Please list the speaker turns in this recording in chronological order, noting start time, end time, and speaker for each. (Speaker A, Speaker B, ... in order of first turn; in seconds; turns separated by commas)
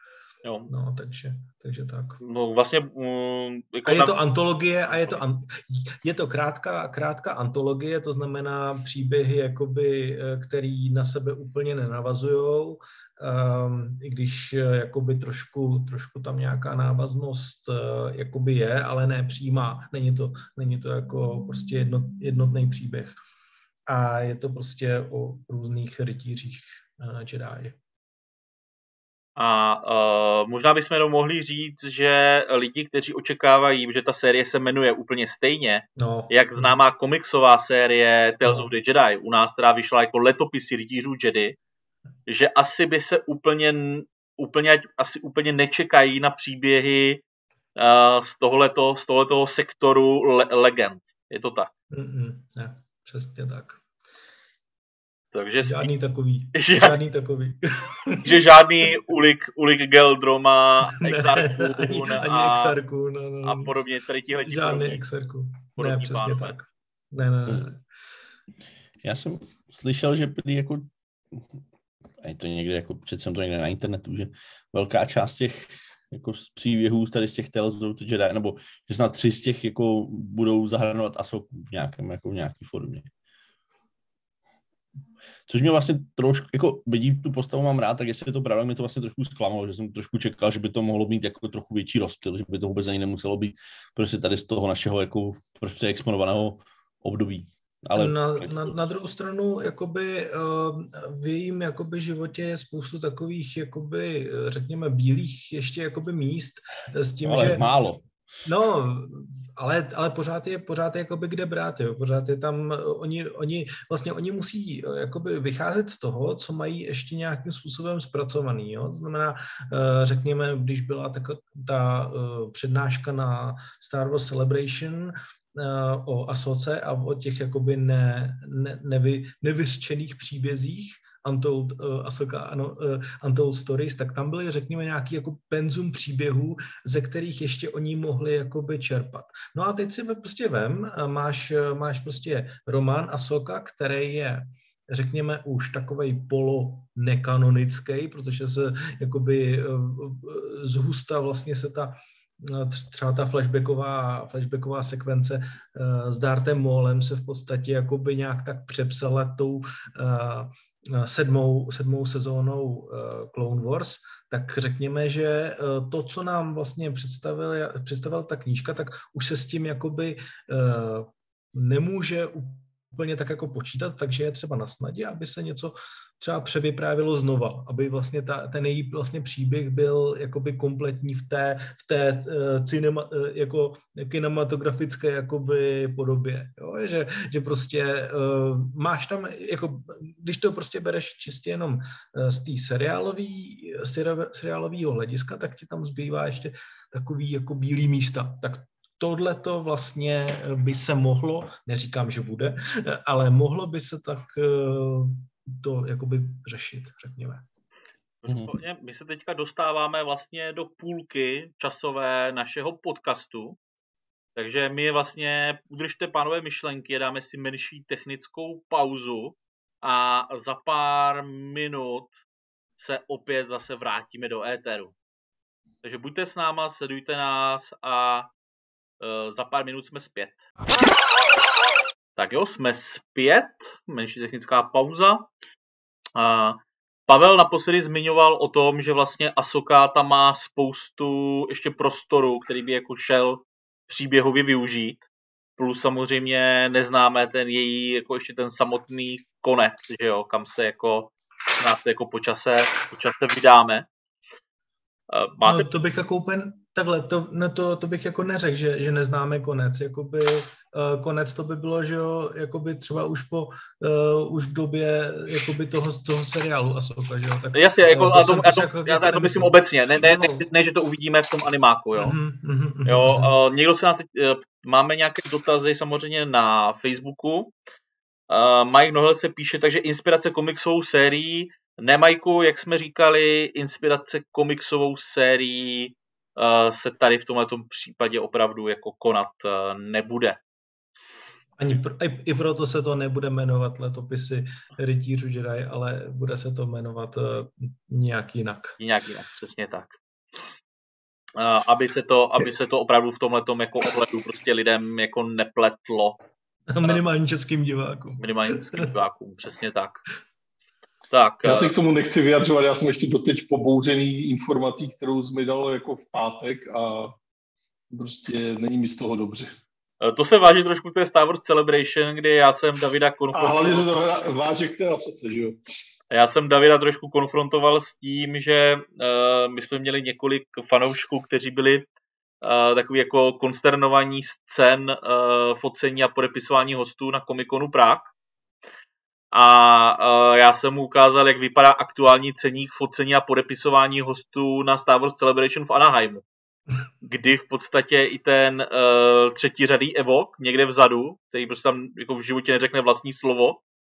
Speaker A: 0.4-0.7, Speaker B: 0.7-2.2, Speaker A: 2.2-4.2, Speaker B: 3.8-23.2, Speaker A: 4.9-5.2, Speaker B: 23.9-27.8, Speaker A: 29.4-41.5, Speaker B: 36.0-36.7, Speaker A: 42.3-47.2, Speaker A: 47.8-51.7, Speaker B: 51.9-53.8, Speaker A: 55.3-55.9, Speaker B: 55.6-58.4, Speaker A: 56.5-57.0, Speaker A: 58.2-62.8, Speaker B: 61.0-63.8, Speaker A: 63.4-65.0, Speaker B: 64.4-67.8, Speaker A: 65.8-66.6, Speaker C: 69.0-71.5, Speaker C: 72.2-83.1, Speaker C: 85.5-98.9, Speaker B: 97.9-107.6, Speaker C: 107.2-108.1, Speaker B: 108.4-207.4, Speaker A: 208.2-213.6, Speaker C: 208.2-208.5, Speaker A: 214.3-222.2, Speaker A: 222.8-224.9, Speaker A: 225.8-228.3, Speaker A: 229.0-230.5, Speaker A: 232.2-235.2, Speaker A: 236.2-245.1, Speaker A: 245.6-253.8, Speaker A: 255.1-255.7, Speaker B: 255.4-270.4, Speaker A: 267.5-272.1, Speaker B: 272.0-273.3, Speaker A: 272.9-277.5, Speaker A: 278.3-290.4, Speaker B: 291.6-298.8, Speaker A: 298.8-300.0, Speaker A: 301.4-306.2, Speaker B: 306.7-308.2, Speaker A: 308.2-310.0, Speaker A: 311.1-311.7, Speaker D: 311.4-317.1, Speaker D: 317.9-319.6, Speaker A: 320.0-323.9, Speaker D: 323.3-325.6, Speaker A: 326.1-331.9, Speaker A: 332.4-338.1, Speaker A: 339.3-346.2, Speaker A: 347.0-353.6